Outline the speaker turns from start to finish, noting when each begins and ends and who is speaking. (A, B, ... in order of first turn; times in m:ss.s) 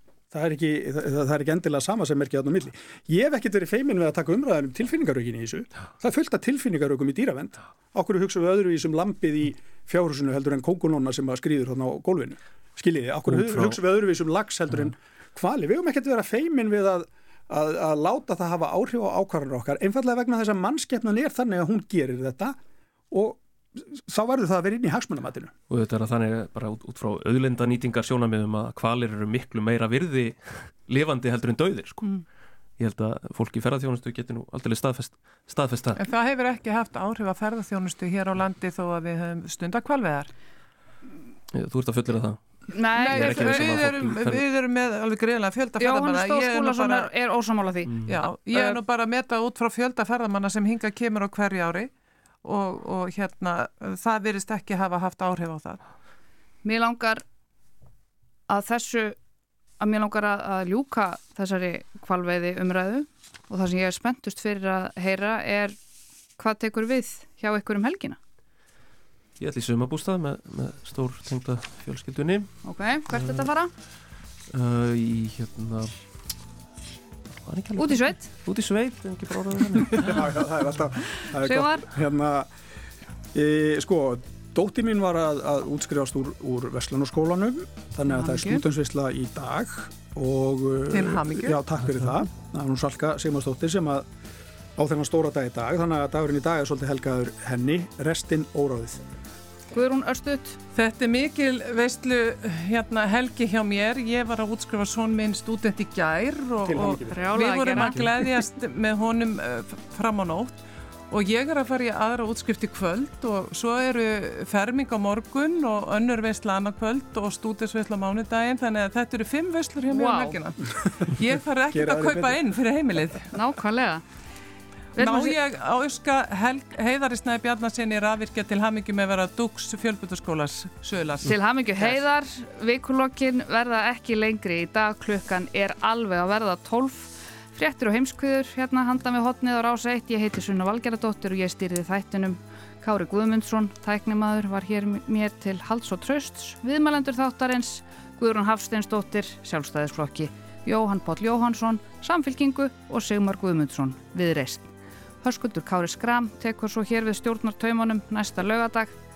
0:00.3-0:22.6 A
0:13.3-0:13.8 B
0:23.1-0:25.5 A
0:25.7-0:32.2 B
0:32.8-0:36.0 B
0:36.0-0:40.3 C
0:41.5-0:42.4 B
0:42.7-0:43.7 D
0:43.0-0:47.1 C
0:43.1-0:44.4 B
0:45.8-0:48.0 D
0:47.9-0:48.2 B
0:48.1-0:51.9 C
0:48.5-0:48.8 D
0:52.4-0:55.8 C
0:56.6-0:57.2 D
0:58.5-0:59.2 D
0:59.8-1:05.8 D
1:06.4-1:08.2 D
1:09.4-1:12.5 B
1:12.6-1:13.7 D
1:14.5-1:16.0 B
1:17.5-1:20.4 B
1:17.8-1:18.3 D
1:19.9-1:22.5 A
1:21.4-1:21.8 D
1:23.3-1:34.0 A
1:28.1-1:28.6 C
1:30.9-1:31.6 C
1:34.8-1:39.0 A
1:39.7-1:40.6 D
1:40.7-2:03.3 C
1:46.6-1:47.2 A
1:47.1-1:48.0 D
1:59.9-2:00.4 D
2:01.7-2:02.4 A
2:03.3-2:04.0 D
2:05.0-2:05.4 D
2:05.0-2:12.0 C
2:11.2-2:39.0 D